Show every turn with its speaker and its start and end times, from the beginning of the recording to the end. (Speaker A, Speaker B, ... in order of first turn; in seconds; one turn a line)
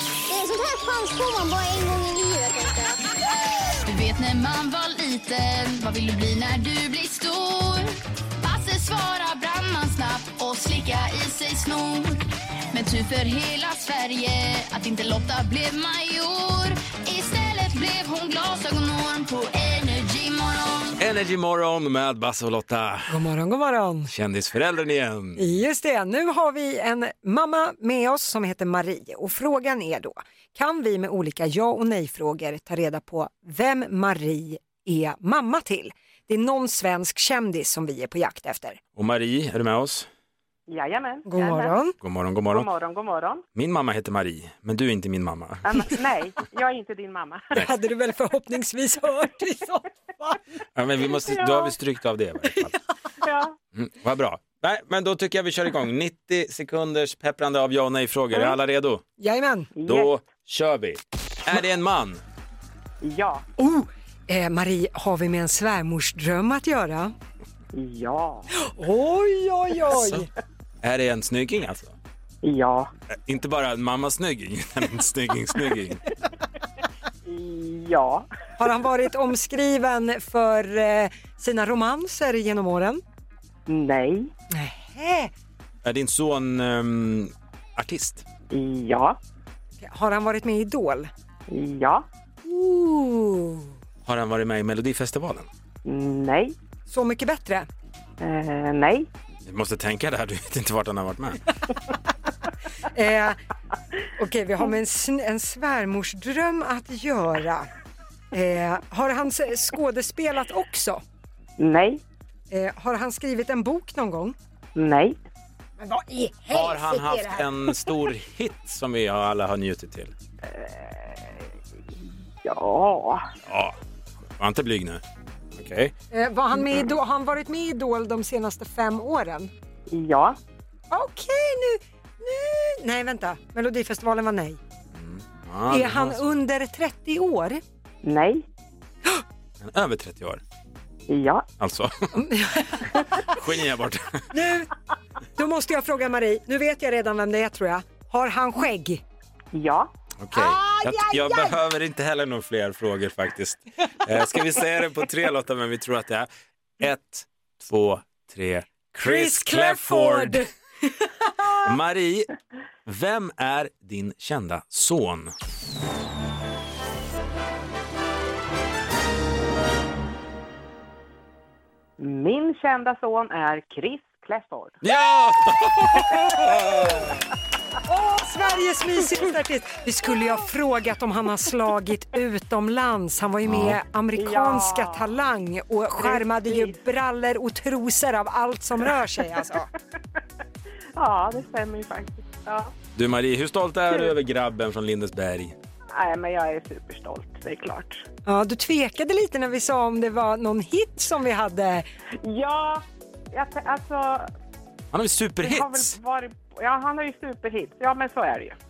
Speaker A: 0.3-3.0
Speaker B: 3.8-21.0
Speaker C: 21.0-23.1
Speaker D: 23.1-24.1
Speaker C: 24.1-25.4
Speaker D: 25.4-38.8
Speaker C: 39.0-40.1
Speaker E: 40.7-41.8
Speaker D: 41.3-41.9
Speaker C: 42.0-42.7
Speaker E: 42.5-43.4
Speaker C: 43.5-45.6
Speaker E: 45.6-47.5
Speaker D: 47.6-50.4
Speaker C: 50.7-52.7
Speaker E: 51.2-51.7
Speaker E: 53.2-53.5
Speaker C: 53.7-59.0
Speaker D: 59.2-59.7
Speaker E: 59.8-60.1
Speaker C: 59.8-62.2
Speaker E: 63.0-63.5
Speaker D: 63.6-67.1
Speaker E: 67.7-68.5
Speaker D: 68.6-70.3
Speaker C: 69.9-70.2
Speaker C: 70.8-71.9
Speaker E: 72.4-72.9
Speaker C: 73.1-76.0
Speaker E: 77.2-78.3
Speaker D: 78.6-83.0
Speaker E: 83.7-84.3
Speaker D: 84.5-85.3
Speaker C: 85.8-88.2
Speaker E: 88.5-89.2
Speaker D: 89.8-91.1
Speaker E: 91.5-92.1
Speaker D: 92.5-93.7
Speaker C: 94.0-95.5
Speaker E: 95.8-96.5
Speaker D: 96.9-97.7
Speaker E: 98.2-99.1
Speaker C: 99.5-101.4
Speaker D: 102.9-103.4
Speaker D: 104.2-107.7
Speaker D: 108.3-111.0
Speaker E: 111.6-112.0
Speaker D: 112.5-114.3
Speaker E: 114.7-115.2
Speaker D: 115.8-117.7
Speaker C: 116.5-120.1
Speaker E: 120.4-121.4
Speaker E: 122.4-123.2
Speaker C: 123.5-123.8
Speaker C: 124.4-125.0
Speaker C: 125.6-125.9
Speaker D: 126.1-129.5
Speaker E: 129.9-130.4
Speaker D: 130.9-134.6
Speaker C: 134.9-136.3
Speaker D: 135.7-137.6
Speaker E: 138.0-138.4
Speaker C: 139.6-140.4
Speaker E: 141.1-141.5
Speaker C: 141.6-142.1
Speaker D: 142.1-143.3
Speaker C: 143.3-144.3
Speaker D: 144.3-144.7
Speaker D: 145.4-149.0
Speaker E: 149.5-149.9
Speaker C: 150.2-156.3
Speaker D: 150.3-151.5
Speaker C: 156.8-160.4
Speaker D: 159.0-161.7
Speaker C: 161.6-162.3
Speaker C: 162.8-165.3
Speaker E: 172.0-174.8
Speaker C: 174.8-177.2
Speaker D: 177.9-189.7
Speaker C: 183.5-183.8
Speaker E: 184.1-185.2
Speaker E: 186.0-186.8
Speaker E: 190.9-192.7
Speaker C: 192.9-195.5
Speaker E: 195.9-198.0
Speaker D: 198.2-201.8
Speaker E: 202.2-204.3
Speaker C: 204.9-206.0
Speaker E: 205.4-208.6